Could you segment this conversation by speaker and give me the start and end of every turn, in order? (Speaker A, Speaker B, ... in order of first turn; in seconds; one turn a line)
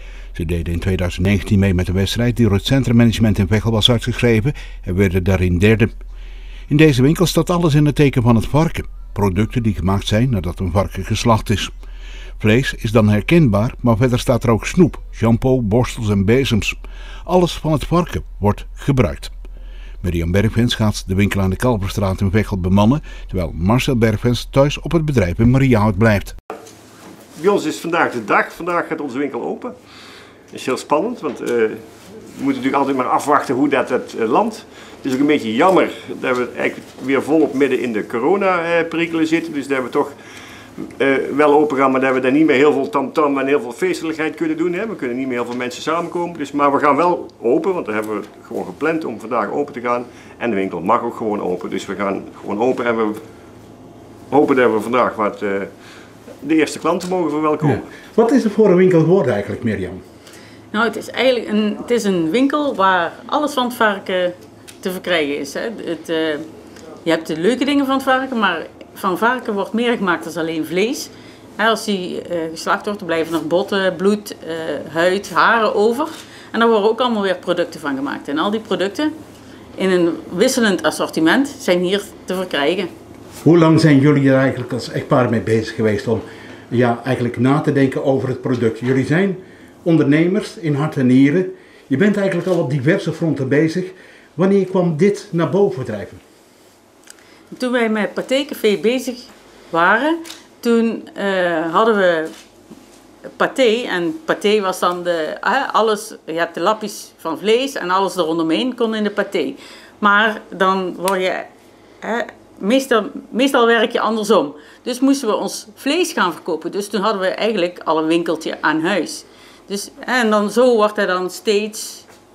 Speaker A: 0.3-5.9
Speaker A: 6.7-11.7
Speaker A: 12.4-19.3
Speaker A: 20.0-26.4
Speaker B: 27.4-29.8
Speaker B: 30.5-40.2
Speaker B: 40.8-53.2
Speaker B: 54.3-55.7
Speaker B: 56.4-57.9
Speaker A: 57.6-60.0
Speaker C: 60.7-66.5
Speaker C: 67.0-79.1
Speaker C: 79.8-82.9
Speaker A: 83.4-96.2
Speaker C: 97.5-102.3
Speaker C: 103.4-111.5
Speaker C: 112.0-122.1